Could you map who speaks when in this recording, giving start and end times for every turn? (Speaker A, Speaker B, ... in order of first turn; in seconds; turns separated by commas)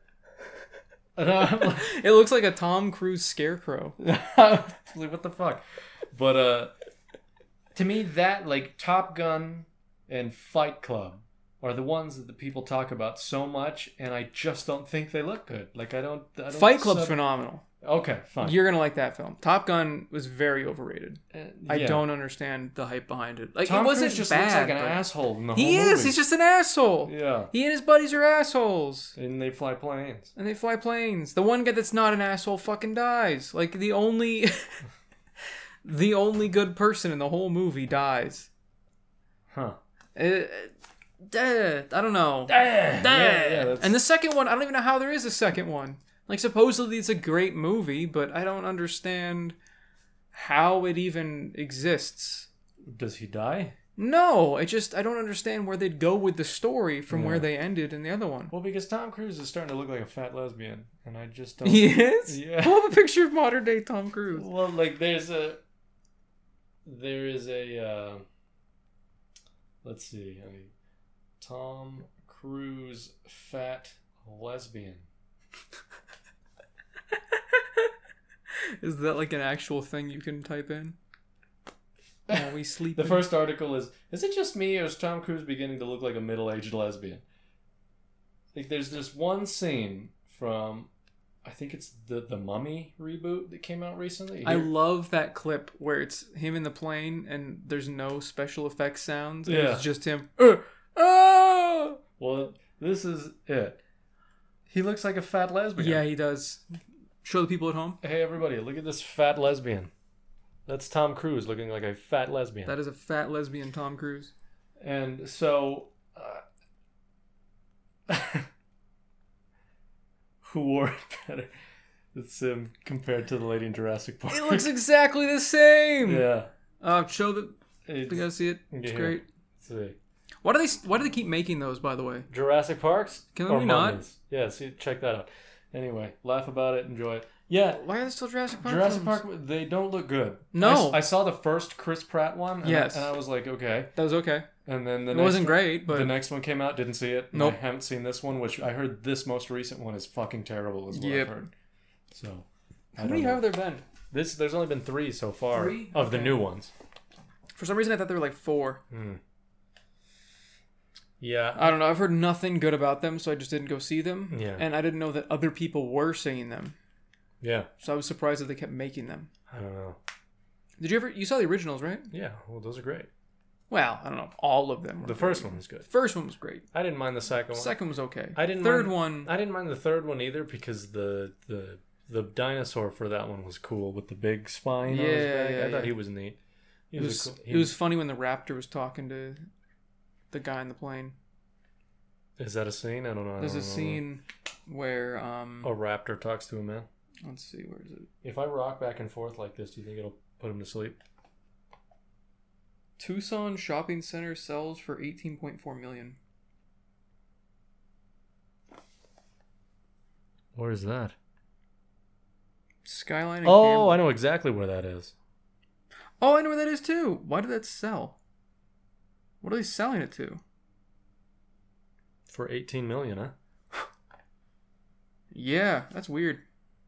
Speaker A: 1.2-1.9, Speaker B: 1.6-4.0, Speaker A: 4.0-5.6, Speaker A: 6.1-6.7, Speaker A: 7.7-17.2, Speaker B: 16.5-17.6, Speaker A: 17.8-18.6, Speaker B: 18.4-29.2, Speaker A: 21.3-22.1, Speaker A: 23.6-26.2, Speaker A: 27.1-27.5, Speaker A: 29.2-30.3, Speaker B: 30.4-34.9, Speaker B: 35.8-38.5, Speaker A: 39.5-39.8, Speaker B: 40.1-49.6, Speaker A: 42.5-44.0, Speaker B: 50.3-52.5, Speaker A: 52.8-53.8, Speaker B: 54.0-58.5, Speaker A: 57.1-57.5, Speaker A: 58.5-63.0, Speaker B: 61.6-64.5, Speaker A: 64.3-65.6, Speaker A: 66.8-68.2, Speaker A: 69.8-70.7, Speaker A: 71.4-75.1, Speaker B: 78.8-81.0, Speaker A: 82.3-87.2, Speaker B: 82.3-83.3, Speaker A: 88.5-90.9, Speaker A: 91.4-94.7, Speaker B: 94.4-102.0, Speaker A: 99.5-99.9, Speaker A: 102.2-103.8, Speaker A: 104.7-106.0, Speaker B: 105.8-106.6, Speaker B: 107.2-108.0, Speaker A: 108.0-109.9, Speaker A: 110.7-112.7, Speaker B: 112.7-114.3, Speaker A: 114.8-116.4, Speaker A: 118.1-118.5, Speaker A: 120.4-121.5, Speaker A: 122.1-124.7, Speaker B: 124.3-126.3, Speaker A: 126.0-126.5, Speaker B: 126.8-129.2, Speaker A: 127.9-130.0, Speaker B: 130.4-132.3, Speaker A: 132.3-137.8, Speaker B: 133.3-134.0, Speaker B: 137.7-139.2, Speaker A: 138.6-143.9, Speaker B: 140.5-141.0, Speaker B: 142.6-143.1, Speaker B: 143.9-144.5, Speaker A: 144.6-151.5, Speaker B: 145.1-146.1, Speaker B: 147.3-147.6, Speaker B: 150.9-151.4, Speaker A: 152.1-153.4, Speaker B: 152.9-153.8, Speaker A: 154.1-156.7, Speaker B: 155.5-156.4, Speaker B: 157.6-158.8, Speaker A: 158.9-159.2, Speaker A: 161.2-161.7, Speaker B: 161.6-166.8, Speaker A: 164.3-164.6, Speaker A: 167.4-167.7, Speaker B: 167.8-169.3, Speaker A: 169.5-170.0, Speaker B: 170.8-172.1, Speaker A: 172.1-173.1, Speaker B: 173.7-176.7, Speaker A: 175.0-175.9, Speaker A: 176.7-177.8, Speaker B: 177.5-179.3, Speaker A: 178.4-186.4, Speaker B: 184.8-185.9, Speaker A: 186.9-187.7, Speaker B: 186.9-189.5, Speaker B: 190.3-191.2, Speaker A: 192.4-194.0, Speaker B: 193.4-195.7, Speaker A: 195.6-196.9, Speaker B: 197.2-198.1, Speaker A: 198.2-201.0, Speaker B: 203.0-206.2, Speaker A: 210.6-211.1, Speaker B: 212.8-214.0, Speaker A: 213.4-215.1, Speaker B: 216.2-218.2, Speaker B: 219.4-220.4, Speaker A: 222.3-223.9, Speaker B: 225.3-226.4